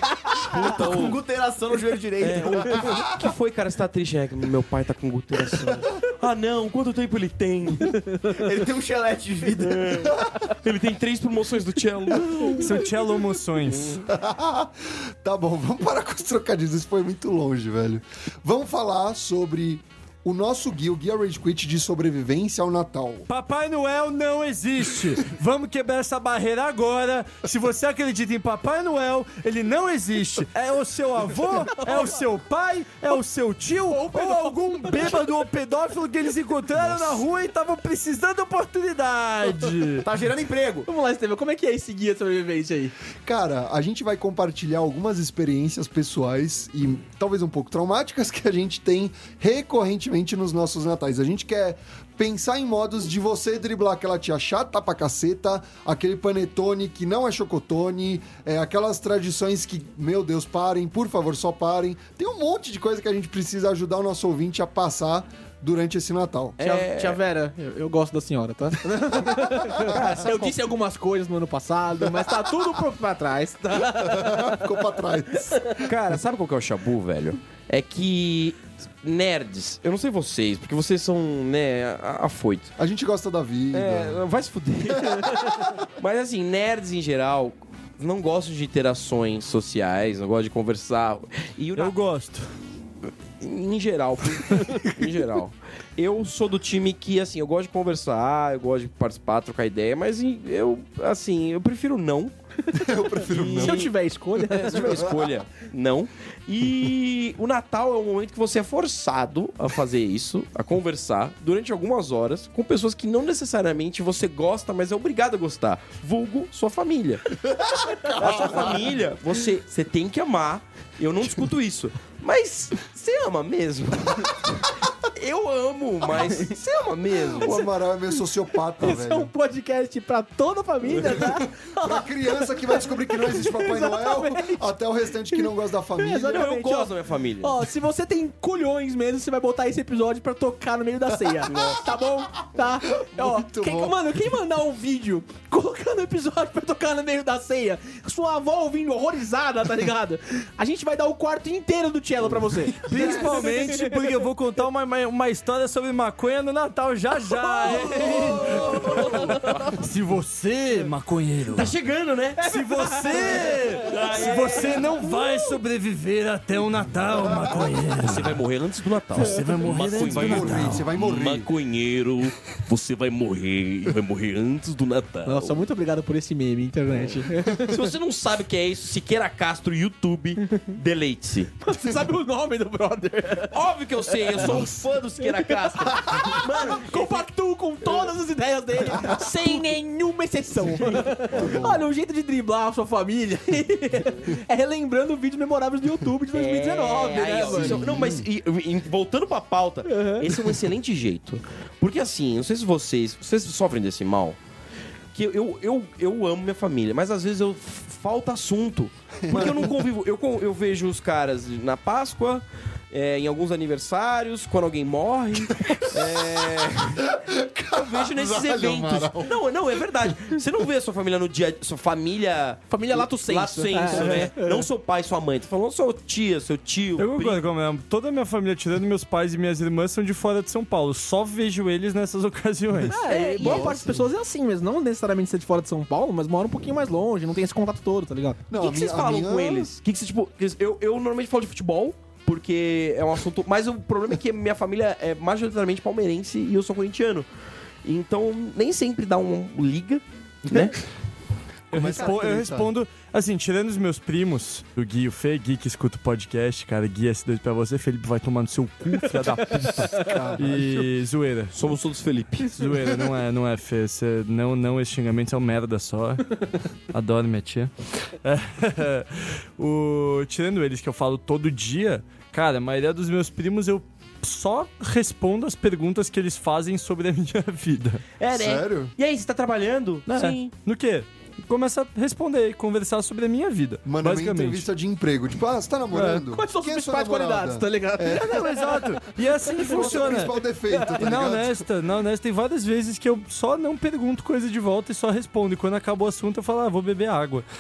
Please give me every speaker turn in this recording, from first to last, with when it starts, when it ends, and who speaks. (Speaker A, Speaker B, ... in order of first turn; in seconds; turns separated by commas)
Speaker A: 0.4-1.2, Speaker B: 0.7-2.9, Speaker A: 2.2-8.0, Speaker C: 7.9-8.4, Speaker B: 8.3-10.0, Speaker A: 9.6-12.8, Speaker D: 10.0-10.4, Speaker E: 12.6-14.1, Speaker D: 14.1-23.3, Speaker E: 23.3-40.1, Speaker C: 31.7-32.2, Speaker C: 33.9-35.5, Speaker D: 36.8-37.2, Speaker B: 40.0-40.9, Speaker C: 40.9-43.0, Speaker D: 43.2-66.6, Speaker A: 66.6-67.2, Speaker C: 66.6-74.7, Speaker D: 69.3-70.2, Speaker A: 69.7-70.6, Speaker D: 72.2-72.5, Speaker D: 74.0-75.9, Speaker A: 75.8-82.7, Speaker D: 82.8-84.2, Speaker A: 83.7-91.9, Speaker D: 85.1-85.5, Speaker E: 91.8-92.5, Speaker A: 93.1-102.3, Speaker D: 102.7-103.9, Speaker C: 102.8-105.0, Speaker A: 103.3-117.2, Speaker D: 104.8-105.3, Speaker D: 117.4-119.0, Speaker A: 118.1-127.6, Speaker D: 127.3-129.3, Speaker C: 128.8-154.0, Speaker D: 130.9-136.6, Speaker A: 136.2-137.6, Speaker A: 141.5-141.9, Speaker D: 143.0-144.0, Speaker E: 152.9-161.7, Speaker C: 157.4-159.7, Speaker A: 157.8-159.8, Speaker A: 161.5-162.4, Speaker C: 162.4-165.3, Speaker E: 162.4-168.4, Speaker A: 163.8-165.0, Speaker A: 167.9-175.6, Speaker E: 169.2-170.9, Speaker D: 170.0-171.5, Speaker C: 175.2-177.9, Speaker A: 177.0-181.5, Speaker C: 181.6-183.6, Speaker A: 183.5-187.3, Speaker C: 184.3-197.9, Speaker A: 187.8-188.1, Speaker D: 191.3-191.9, Speaker A: 196.3-204.4, Speaker D: 197.4-198.3, Speaker C: 199.9-200.3, Speaker A: 205.1-217.1, Speaker D: 209.2-209.8, Speaker D: 216.0-216.3, Speaker D: 217.0-219.4, Speaker A: 217.7-227.4, Speaker C: 222.7-224.7, Speaker E: 227.0-233.0, Speaker C: 232.9-238.4, Speaker A: 233.0-233.9, Speaker D: 233.4-234.0, Speaker D: 238.5-239.7, Speaker A: 238.6-247.3, Speaker A: 247.8-250.8, Speaker E: 251.7-261.6, Speaker D: 251.7-252.7, Speaker C: 259.2-260.0, Speaker D: 260.0-260.9, Speaker A: 261.5-262.6, Speaker E: 262.5-278.0, Speaker A: 278.2-280.5, Speaker D: 278.3-278.9, Speaker E: 280.1-284.7, Speaker D: 283.9-288.4, Speaker E: 285.9-286.3, Speaker C: 286.3-288.9, Speaker E: 288.1-290.3, Speaker C: 289.6-290.9, Speaker D: 289.7-291.6, Speaker E: 290.9-297.4